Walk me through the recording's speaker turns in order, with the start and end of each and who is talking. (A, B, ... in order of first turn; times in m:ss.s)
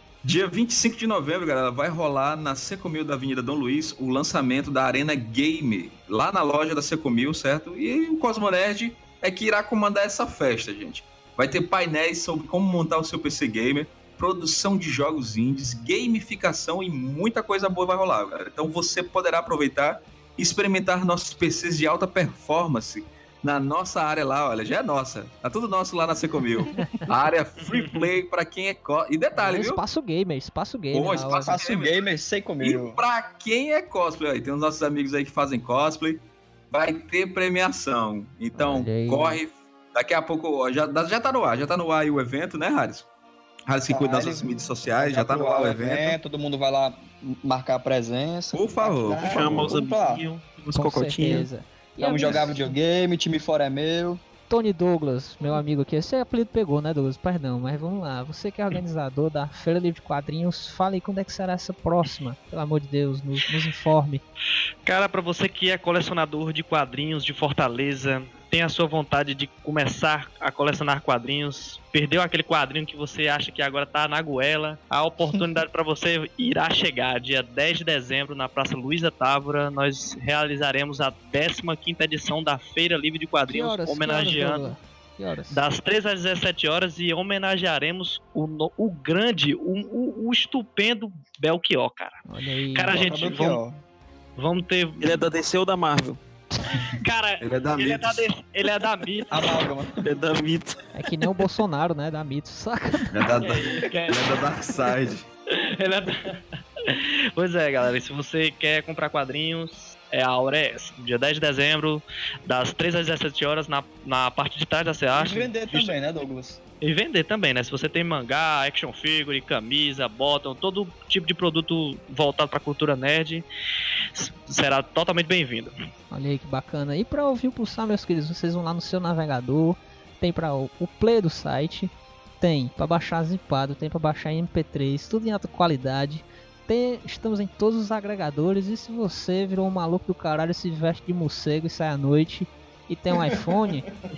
0:00.2-0:29.8 A
0:27.6-0:28.0 B
0:29.3-0:31.5 C
0:30.9-0:32.0 A
0:31.0-0:33.0 D
0:32.6-0:43.1 A
0:38.5-0:39.4 C
0:43.7-0:46.2 A
0:43.9-0:50.2 D
0:48.5-0:49.8 A
0:49.2-0:51.5 E
0:50.7-0:52.8 C
0:52.0-0:54.2 D
0:54.5-1:04.2 C
1:04.8-1:24.7 B
1:23.5-1:25.6 C
1:25.5-1:33.6 B
1:32.3-1:33.0 C
1:32.9-1:33.8 D
1:34.4-1:35.2 B
1:35.0-1:36.2 E
1:37.0-1:39.7 B
1:37.4-1:38.3 A
1:39.3-1:40.0 D
1:40.0-1:40.8 E
1:40.9-1:43.2 C
1:43.1-1:45.2 A
1:43.4-1:44.3 B
1:45.6-1:55.9 B
1:55.2-1:56.6 D
1:56.8-2:03.4 B
2:04.1-2:05.7 B
2:06.1-2:23.9 C